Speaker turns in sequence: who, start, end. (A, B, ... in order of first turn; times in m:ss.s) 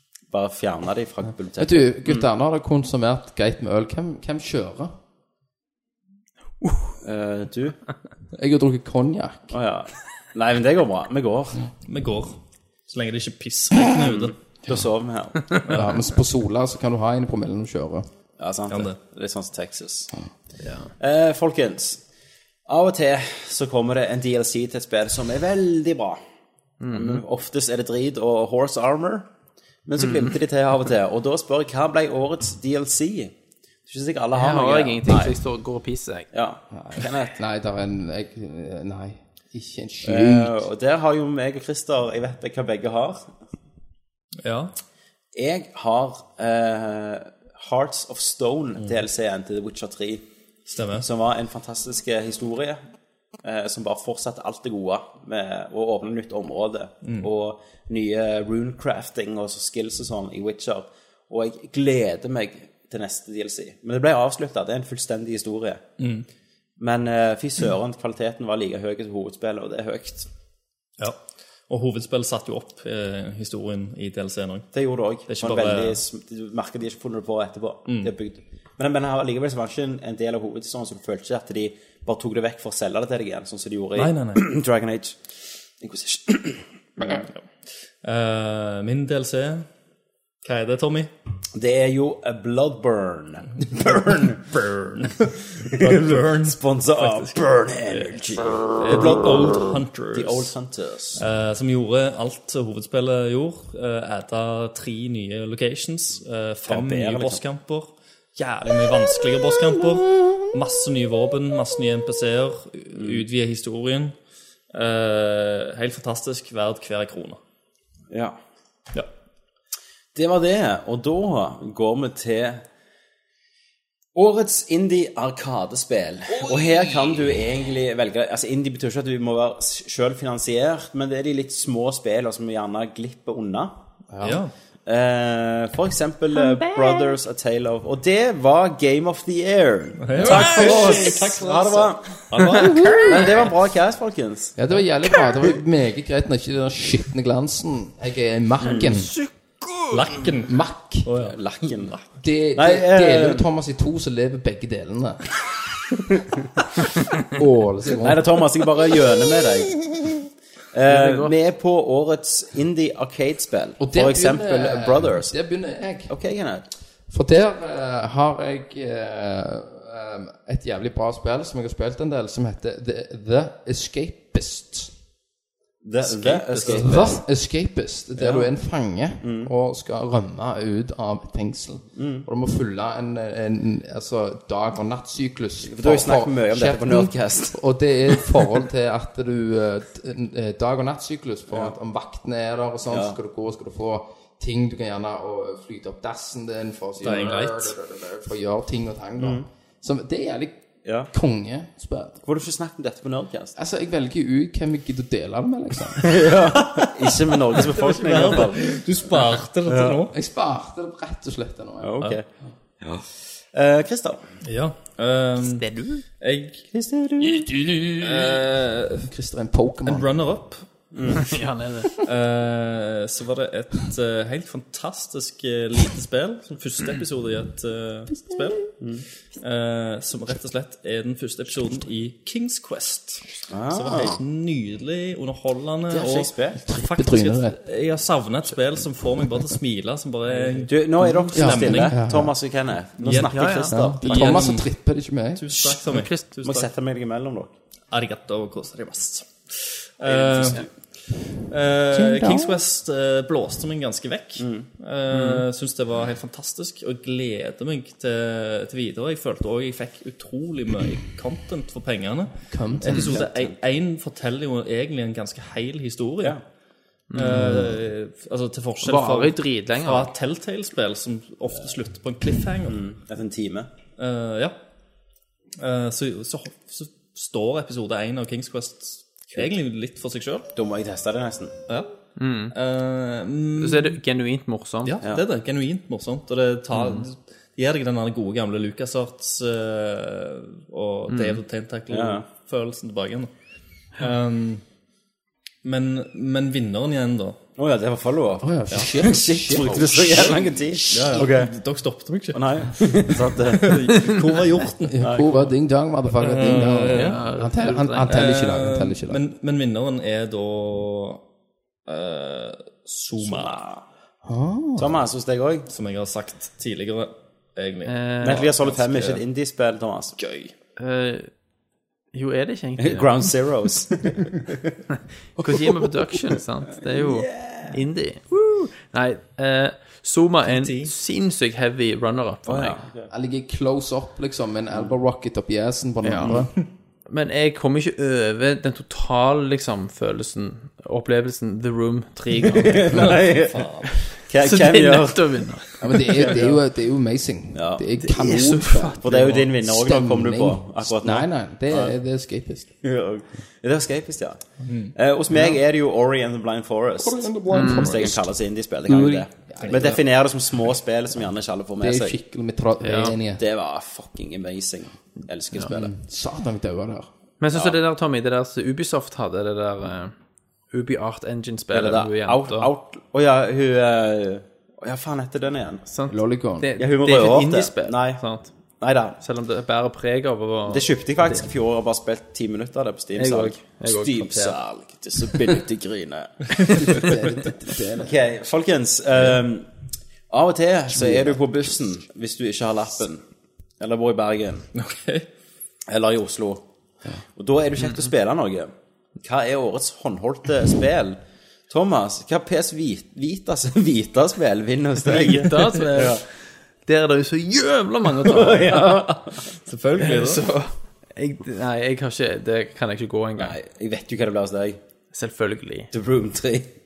0:00.3-0:02.3 A
0:01.6-0:04.9 B
0:06.6-0:07.0 C
0:07.0-0:07.8 A
0:08.4-0:09.6 B
0:09.5-0:11.7 A
0:11.9-0:14.4 D
0:13.9-0:15.8 A
0:15.6-0:15.9 D
0:15.7-0:18.1 B
0:18.4-0:20.1 A
0:18.7-0:19.0 D
0:20.6-0:20.9 C
0:21.0-0:22.0 A
0:22.7-0:26.2 A
0:26.8-0:27.2 C
0:26.9-0:29.3 A
0:29.8-0:33.3 A
0:30.0-0:30.3 C
0:33.9-0:35.4 A
0:34.3-0:36.3 C
0:36.3-0:37.4 A
0:36.7-0:40.7 B
0:40.0-0:43.3 A
0:44.4-0:44.7 D
0:45.3-0:50.3 A
0:50.7-0:51.1 D
0:51.0-0:52.8 A
0:53.4-1:05.9 A
0:57.0-0:57.3 D
1:06.0-1:06.3 D
1:06.8-1:10.3 A
1:11.0-1:14.7 D
1:14.7-1:25.2 A
1:15.3-1:16.0 D
1:24.0-1:24.4 D
1:25.8-1:27.3 A
1:28.0-1:29.7 D
1:30.4-1:31.1 D
1:31.6-1:35.1 A
1:34.6-1:35.2 D
1:35.6-1:41.2 A
1:35.8-1:40.5 D
1:41.2-1:54.2 D
1:46.7-1:47.4 A
1:53.0-1:53.2 A
1:54.7-1:57.4 D
1:58.1-1:58.4 A
2:00.2-2:02.6 A
2:04.2-2:13.8 A
2:14.1-2:14.4 B
2:14.2-2:14.5 D
2:14.9-2:24.6 A
2:20.0-2:23.3 D
2:22.7-2:23.0 B
2:24.6-2:29.1 B
2:28.6-2:28.9 A
2:28.8-2:30.0 C
2:29.9-2:32.0 D
2:30.4-2:31.1 B
2:31.2-2:32.0 A
2:32.2-2:35.3 B
2:32.6-2:33.5 A
2:37.3-2:38.4 B
2:38.0-2:40.0 A
2:40.7-2:45.4 A
2:40.9-2:41.3 C
2:43.8-2:46.1 B
2:46.1-2:46.6 A
2:47.1-2:54.9 B
2:55.8-2:57.2 A
2:56.0-2:57.1 D
2:56.6-3:22.2 B
2:58.2-2:58.5 A
2:59.2-2:59.5 A
3:02.0-3:02.3 A
3:05.6-3:07.6 A
3:12.9-3:13.2 A
3:17.0-3:17.7 D
3:19.2-3:19.5 A
3:20.8-3:21.1 A
3:22.2-3:23.6 A
3:23.6-3:26.1 B
3:26.0-3:28.8 A
3:26.7-3:30.1 D
3:29.6-3:30.1 A
3:30.1-3:31.9 B
3:31.8-3:32.3 A
3:32.8-3:34.2 A
3:34.4-3:35.7 D
3:35.4-3:36.0 C
3:36.2-3:36.6 D
3:36.7-3:37.6 A
3:38.0-3:39.1 D
3:39.0-3:40.1 B
3:39.8-3:40.7 D
3:40.9-3:41.4 A
3:41.3-3:41.9 C
3:42.0-3:48.8 D
3:48.8-3:49.0 A
3:49.4-4:02.1 D
3:53.5-3:54.2 A
3:55.9-3:56.6 A
3:56.6-3:57.6 B
4:00.6-4:04.4 A
4:01.3-4:02.3 B
4:03.0-4:04.7 D
4:03.3-4:03.7 C
4:03.7-4:05.4 B
4:05.4-4:06.7 D
4:05.6-4:06.3 C
4:06.4-4:07.5 A
4:07.9-4:10.7 D
4:10.0-4:10.7 A
4:11.5-4:26.4 D
4:11.9-4:12.6 B
4:14.4-4:14.7 A
4:15.1-4:15.4 C
4:22.5-4:23.1 B
4:22.9-4:23.6 A
4:27.1-4:27.5 C
4:27.1-4:32.8 D
4:27.4-4:27.8 B
4:28.8-4:30.1 C
4:32.7-4:33.7 A
4:34.0-4:34.6 D
4:35.6-4:40.5 D
4:40.6-4:41.6 A
4:42.2-4:42.5 C
4:42.5-4:44.0 D
4:43.6-4:45.0 C
4:44.8-4:53.3 D
4:51.1-4:51.4 C
4:51.9-4:52.3 A
4:54.0-4:54.6 D
4:55.6-4:57.4 D
4:57.6-5:01.6 A
4:58.4-5:00.4 B
5:00.9-5:05.3 D
5:00.9-5:01.3 B
5:02.3-5:04.1 A
5:04.9-5:09.2 B
5:05.0-5:05.3 A
5:06.2-5:07.4 D
5:06.9-5:08.2 C
5:08.0-5:11.2 D
5:11.9-5:13.6 D
5:13.2-5:13.8 A
5:14.2-5:15.0 B
5:14.8-5:15.7 A
5:15.7-5:19.2 D
5:17.9-5:18.5 C
5:18.2-5:20.2 A
5:20.2-5:20.5 D
5:20.8-5:21.3 C
5:22.1-5:23.3 C
5:22.8-5:24.8 A
5:25.4-5:32.8 C
5:26.9-5:27.8 A
5:30.5-5:30.9 D
5:32.5-5:33.1 A
5:33.1-5:36.5 B
5:36.0-5:36.4 C
5:37.1-5:43.1 C
5:42.5-5:45.5 A
5:43.0-5:44.1 D
5:44.4-5:45.8 C
5:45.8-5:52.7 B
5:46.1-5:46.6 A
5:47.5-5:47.8 A
5:48.0-5:49.4 C
5:49.0-5:52.0 A
5:52.8-6:02.2 A
5:54.6-5:54.9 D
5:57.0-5:58.3 B
5:57.5-5:58.0 C
5:58.9-6:00.0 B
6:01.8-6:03.4 B
6:02.8-6:03.2 C
6:03.4-6:05.9 A
6:05.7-6:07.1 B
6:07.4-6:10.1 C
6:10.7-6:12.7 C
6:11.7-6:15.8 A
6:15.9-6:18.5 C
6:16.1-6:16.7 B
6:16.8-6:18.2 A
6:18.8-6:19.2 A
6:19.2-6:21.5 C
6:20.7-6:27.1 A
6:23.2-6:24.6 C
6:26.7-6:28.2 B
6:28.0-6:29.7 A
6:30.3-6:33.2 A
6:30.9-6:31.4 B
6:33.8-6:34.7 A
6:34.8-6:35.3 D
6:35.9-6:36.6 A
6:37.4-6:46.2 A
6:45.0-6:49.0 C
6:48.2-6:49.5 A
6:49.6-6:50.5 D
6:50.0-6:53.6 C
6:53.4-6:54.8 A
6:55.1-6:55.9 C
6:55.9-6:56.7 A